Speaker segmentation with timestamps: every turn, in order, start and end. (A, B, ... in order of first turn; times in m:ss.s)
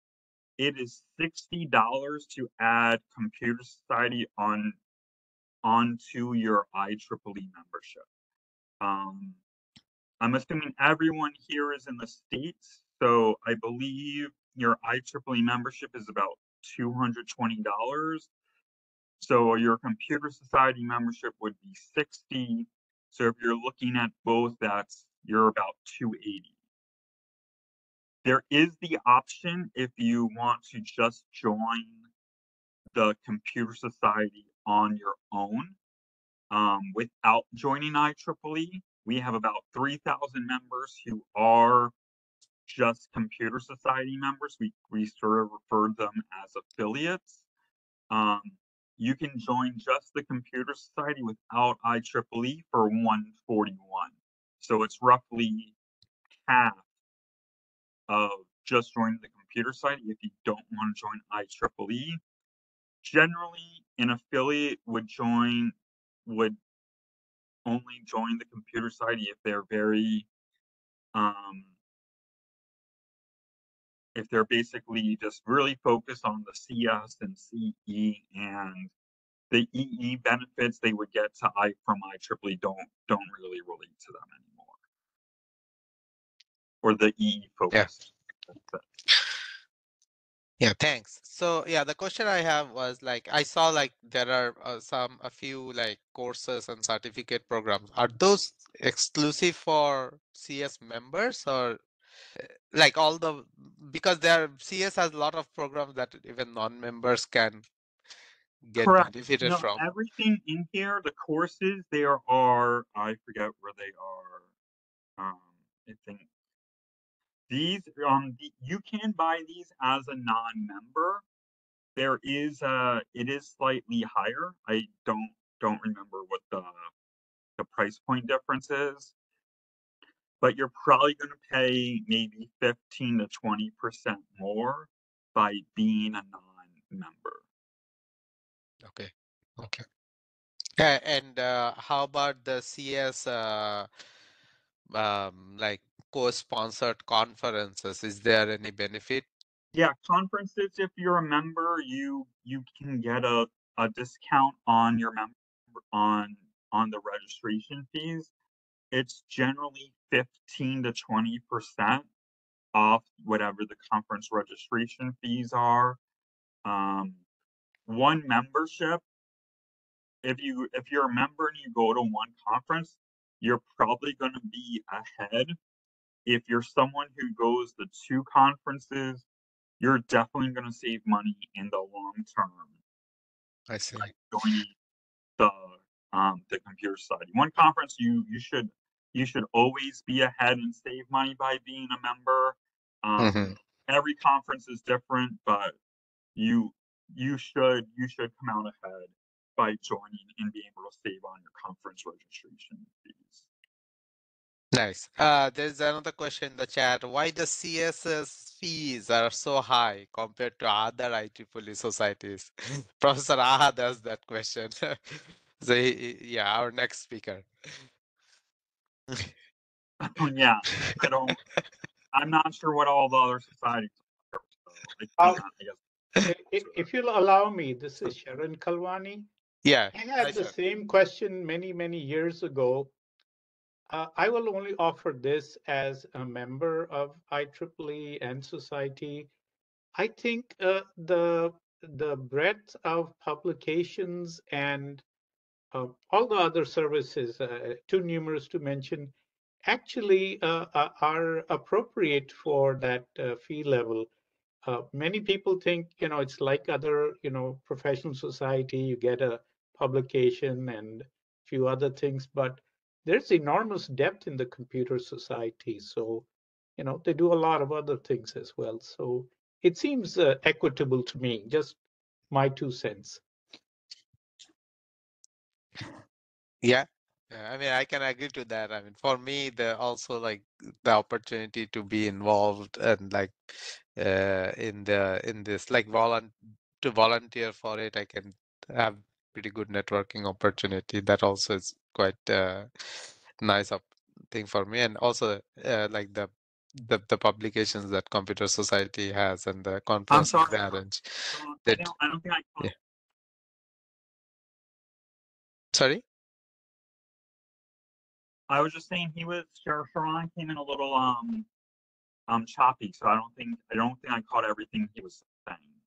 0:00.6-0:04.8 A
0:05.6-0:08.0 A
0:08.8-0:09.4 A
0:10.2-0:18.3 A
0:19.2-0:26.5 A
0:28.2-0:32.1 A
0:32.9-0:35.8 A
0:36.5-0:41.9 A
0:42.7-0:47.4 A
0:48.1-0:55.7 A
0:56.4-0:56.8 A
0:58.1-1:02.2 A
1:03.0-1:06.6 A
1:07.6-1:10.3 A
1:11.1-1:11.7 A
1:14.2-1:18.9 A
1:19.5-1:24.8 A
1:26.8-1:28.8 A
1:30.6-1:41.8 B
1:42.4-1:47.6 B
1:48.6-1:49.8 B
1:48.8-1:54.4 A
1:55.2-1:56.3 A
1:57.5-2:01.2 A
2:02.0-2:06.9 A
2:07.6-2:09.1 A
2:10.4-2:17.4 A
2:18.8-2:19.8 B
2:20.8-2:23.9 B
2:24.9-2:29.2 B
2:29.7-2:38.3 A
2:38.9-2:42.1 A
2:42.7-2:46.0 A
2:46.6-2:47.2 A
2:47.9-2:49.0 A
2:50.2-2:55.6 A
2:56.3-2:59.2 A
2:59.8-3:02.7 A
3:03.7-3:04.1 B
3:04.0-3:04.7 A
3:05.4-3:15.8 A
3:13.2-3:13.6 B
3:16.4-3:23.5 A
3:24.7-3:37.9 B
3:40.0-3:41.4 A
3:42.1-3:45.8 A
3:46.2-3:49.3 C
3:49.6-3:50.5 B
3:49.9-3:52.9 C
3:53.9-3:59.3 C
4:00.0-4:05.0 C
4:05.7-4:09.1 C
4:09.6-4:14.1 C
4:14.6-4:33.2 C
4:36.6-5:01.9 B
5:00.1-5:00.6 A
5:01.3-5:02.7 A
5:05.7-5:06.0 B
5:08.5-5:11.5 A
5:12.3-5:15.7 A